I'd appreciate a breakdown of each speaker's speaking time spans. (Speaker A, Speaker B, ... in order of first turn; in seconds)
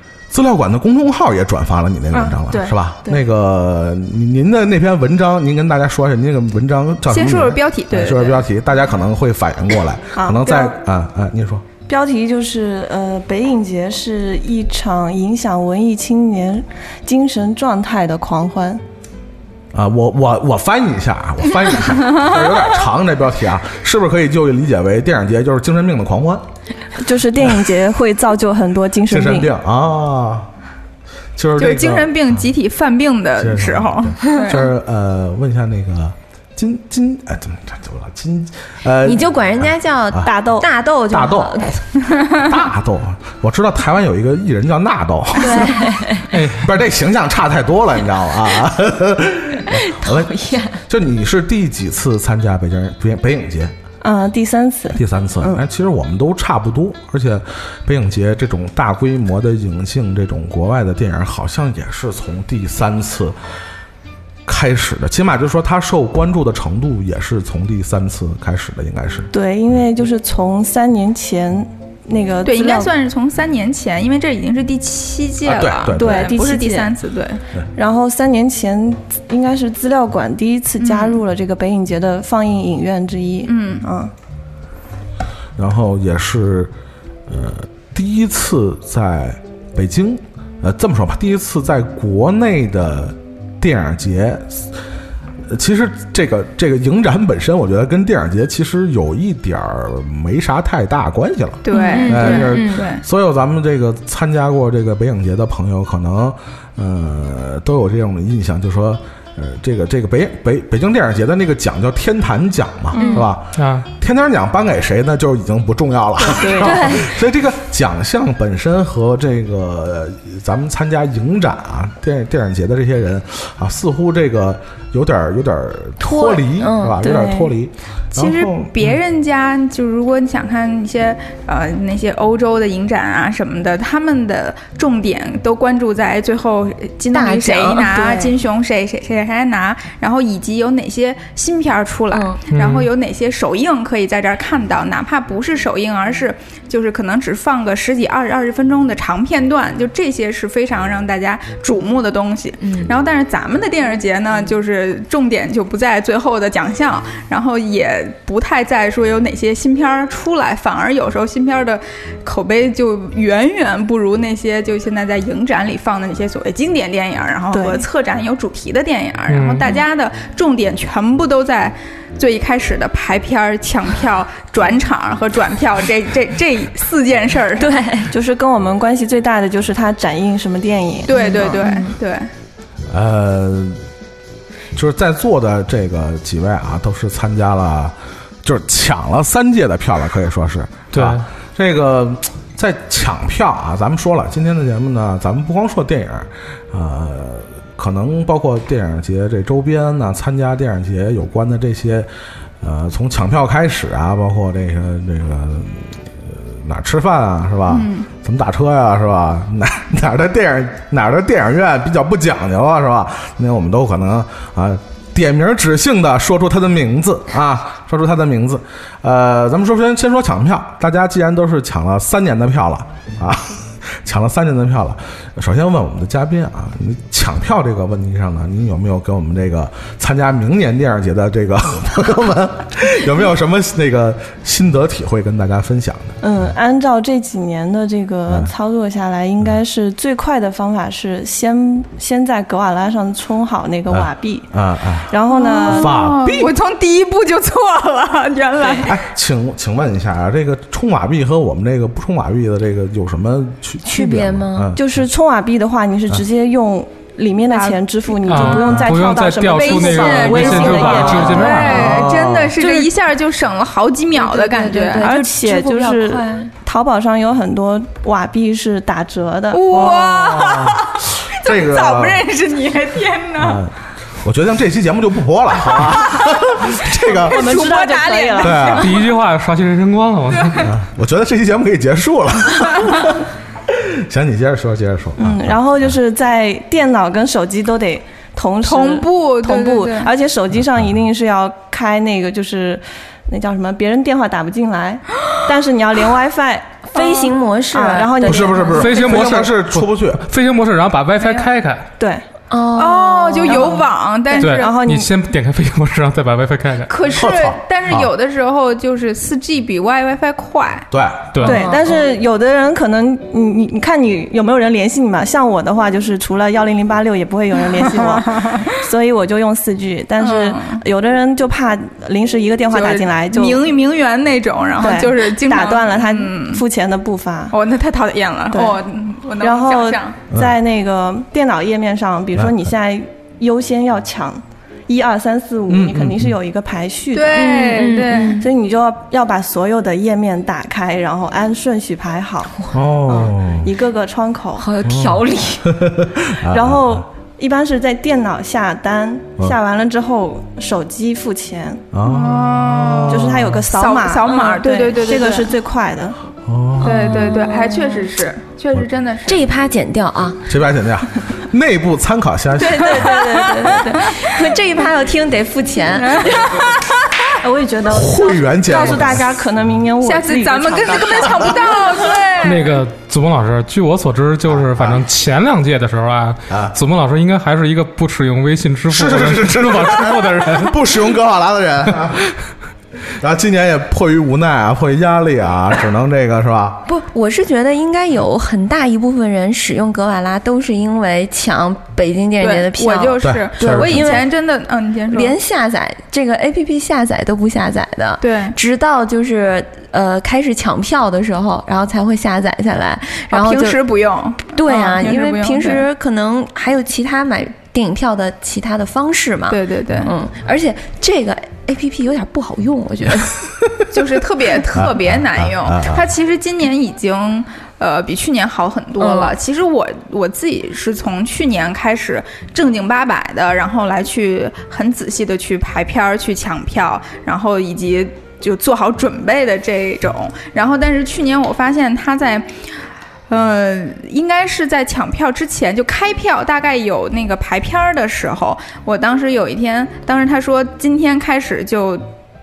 Speaker A: 0.3-11.6, 19.7-26.4, 29.1-30.5, 31.4-32.4, 33.4-40.3, 41.1-41.5, 42.3-45.8, 46.4-53.7, 54.9-63.4, 64.5-69.3, 75.4-76.3, 85.5-86.7, 87.3-94.7, 95.5-128.9, 182.9-183.8, 184.7-202.1, 202.6-236.2, 243.9-246.5, 248.8-254.8, 261.6-262.6, 269.7-272.2, 273.4-277.4, 278.4-278.9, 280.6-285.6, 298.2-300.2, 307.1-308.1, 310.9-311.4, 332.3-332.7, 335.7-336.3, 342.7-343.7, 344.8-347.0, 351.9-353.6, 356.4-357.2, 360.5-363.1, 367.9-369.4, 374.4-375.0, 376.5-376.8, 378.9-382.3, 383.2-386.8, 393.2-394.2, 414.7-416.0
Speaker B: 2.5-3.2, 10.2-10.8, 11.9-18.8, 27.0-29.5, 40.2-40.7, 54.0-55.6, 69.3-72.9, 75.9-76.9, 77.8-84.1, 112.9-113.2, 116.2-117.0, 127.0-127.5, 167.5-167.8, 178.1-181.5, 236.2-244.5, 245.1-245.9, 254.8-262.0, 262.6-262.9, 265.0-269.6, 277.1-278.8, 285.2-299.0, 302.0-302.2, 303.4-305.1, 311.4-323.6, 324.8-327.6, 328.5-328.8, 329.4-337.6, 338.4-344.7, 346.5-351.8, 353.1-356.2, 363.0-364.0, 367.4-372.2
Speaker C: 7.1-8.4, 31.6-34.7, 72.4-77.4, 80.8-81.2, 83.5-83.9, 101.6-103.0, 128.1-177.7, 181.1-182.3, 207.7-208.1, 245.3-249.0, 257.5-258.5, 259.5-265.1, 269.5-273.6, 275.9-276.3, 277.1-278.9, 288.6-290.1, 301.2-301.5, 302.8-304.7, 306.9-310.9, 317.9-318.4, 320.2-320.8, 322.7-326.6, 327.5-330.1, 337.1-338.4, 352.0-355.5, 356.8-359.4, 366.2-366.9, 370.0-372.8, 392.4-395.3, 398.2-398.6, 403.3-405.8, 409.5-410.1, 413.9-432.5, 433.3-442.0
Speaker D: 39.0-41.8, 45.4-46.3, 49.7-50.8, 101.7-102.8, 112.9-113.3, 116.6-117.1, 126.0-127.0, 137.1-138.3, 142.1-142.4, 152.6-152.9, 177.6-178.1, 181.1-181.9, 253.8-254.7, 264.1-266.5, 296.9-298.9, 302.5-303.7, 311.4-311.8, 337.3-338.5, 344.6-345.8, 354.2-354.6, 356.8-358.0, 359.3-360.4, 362.6-366.6, 386.9-394.2, 395.1-403.8, 404.5-413.4, 419.0-419.3
Speaker E: 46.3-46.7, 113.5-113.9, 142.5-142.9, 169.3-169.7, 190.9-191.2, 258.2-261.9, 278.8-280.7, 298.8-301.9, 304.4-306.9, 311.3-311.7, 372.4-380.7